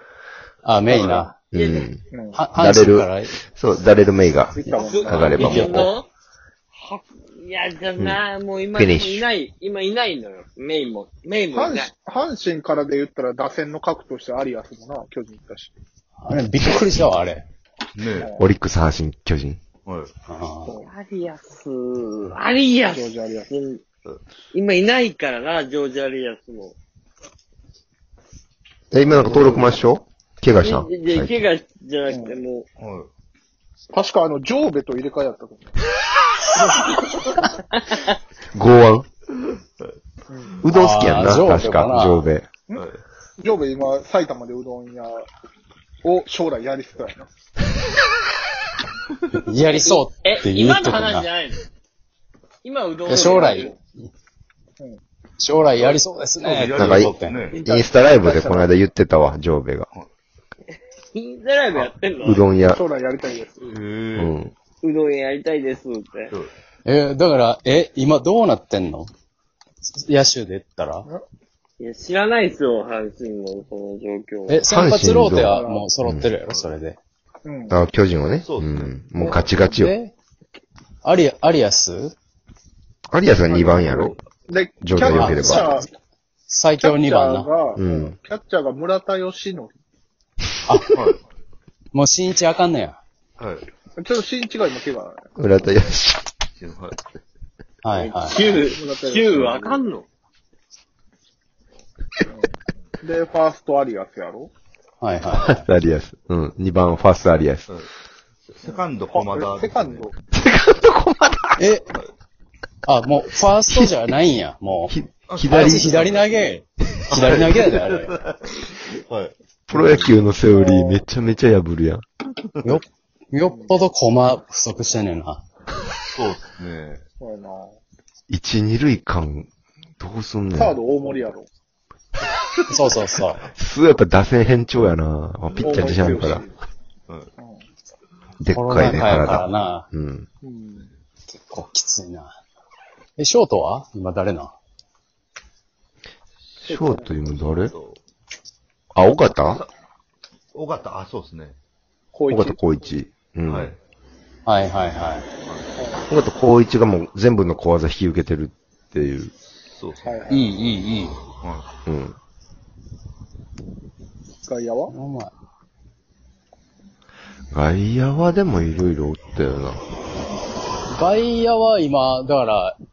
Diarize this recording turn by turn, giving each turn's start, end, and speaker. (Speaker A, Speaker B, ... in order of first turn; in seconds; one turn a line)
Speaker A: 0.6-1.3
Speaker B: 1.5-2.0
Speaker C: 1.5-1.9
Speaker D: 2.1-2.4
Speaker A: 2.3-3.3
Speaker B: 2.5-5.9
Speaker D: 4.6-5.5
Speaker C: 4.6-6.1
Speaker A: 5.3-5.9
Speaker C: 6.7-11.9
Speaker B: 8.7-9.3
Speaker D: 11.5-15.7
Speaker A: 16.2-17.4
Speaker E: 17.9-18.3
Speaker D: 18.1-18.4
Speaker B: 18.4-19.6
Speaker E: 19.8-20.1
Speaker A: 20.3-20.7
Speaker D: 20.6-20.9
Speaker C: 20.8-23.8
Speaker D: 22.9-23.5
Speaker C: 24.5-26.8
Speaker B: 28.9-31.4
Speaker D: 29.1-29.8
Speaker C: 30.6-32.6
Speaker D: 32.1-32.4
Speaker E: 32.8-33.1
Speaker D: 33.9-35.7
Speaker D: 36.5-37.5
Speaker B: 38.5-39.0
Speaker D: 40.3-40.6
Speaker B: 40.6-42.5
Speaker A: 40.7-42.3
Speaker E: 42.8-43.0
Speaker D: 43.4-45.2
Speaker D: 46.0-47.3
Speaker A: 49.3-51.3
Speaker C: 49.8-51.6
Speaker C: 52.6-53.8
Speaker A: 53.1-53.8
Speaker A: 55.4-57.3
Speaker E: 55.8-57.6
Speaker B: 56.8-59.9
Speaker D: 57.6-58.7
Speaker C: 61.1-62.5
Speaker B: 62.2-62.8
Speaker D: 62.7-63.6
Speaker E: 63.6-64.4
Speaker B: 64.2-64.5
Speaker C: 64.8-66.3
Speaker A: 66.8-69.1
Speaker A: 69.8-71.0
Speaker C: 71.8-74.6
Speaker A: 74.5-77.0
Speaker B: 74.7-76.3
Speaker D: 75.4-75.9
Speaker E: 76.5-76.7
Speaker D: 77.4-77.8
Speaker B: 77.7-79.9
Speaker E: 78.4-79.5
Speaker A: 79.2-80.1
Speaker A: 81.0-82.1
Speaker B: 83.1-84.2
Speaker D: 83.5-85.9
Speaker B: 84.8-85.8
Speaker A: 85.1-85.8
Speaker A: 86.5-87.5
Speaker D: 86.8-89.7
Speaker B: 87.8-88.2
Speaker E: 90.9-91.2
Speaker A: 91.9-93.0
Speaker E: 93.4-93.7
Speaker D: 94.0-95.3
Speaker B: 95.4-96.3
Speaker E: 96.5-97.0
Speaker A: 97.8-98.4
Speaker C: 97.9-100.0
Speaker D: 98.5-99.8
Speaker D: 103.0-104.5
Speaker A: 105.0-105.6
Speaker B: 105.3-107.7
Speaker E: 108.5-110.1
Speaker D: 108.7-110.1
Speaker B: 110.3-111.6
Speaker A: 111.6-111.9
Speaker A: 112.8-114.9
Speaker B: 113.7-114.0
Speaker B: 114.9-116.0
Speaker E: 115.3-116.6
Speaker A: 115.5-118.1
Speaker E: 117.1-120.3
Speaker B: 119.7-122.0
Speaker D: 120.5-121.0
Speaker A: 122.6-125.4
Speaker D: 123.5-123.7
Speaker E: 126.1-127.0
Speaker D: 127.2-127.8
Speaker B: 128.3-129.5
Speaker B: 130.0-130.8
Speaker D: 130.5-131.5
Speaker A: 132.7-133.4
Speaker B: 133.3-136.4
Speaker D: 135.6-136.5
Speaker E: 137.1-137.3
Speaker D: 137.4-137.6
Speaker B: 138.4-140.3
Speaker A: 138.5-139.9
Speaker D: 140.4-140.9
Speaker A: 141.3-142.3
Speaker A: 143.2-144.5
Speaker D: 146.6-147.1
Speaker B: 146.7-147.7
Speaker E: 147.2-148.0
Speaker B: 148.9-149.6
Speaker E: 150.5-151.6
Speaker D: 152.1-152.6
Speaker B: 152.3-153.7
Speaker E: 153.4-153.8
Speaker A: 154.4-155.3
Speaker E: 155.4-155.7
Speaker D: 155.8-156.1
Speaker B: 156.1-159.3
Speaker E: 159.6-160.2
Speaker D: 160.0-160.5
Speaker A: 160.3-161.2
Speaker E: 161.4-161.7
Speaker B: 161.8-162.2
Speaker D: 164.4-164.9
Speaker A: 164.9-165.3
Speaker B: 167.5-169.8
Speaker A: 170.9-172.8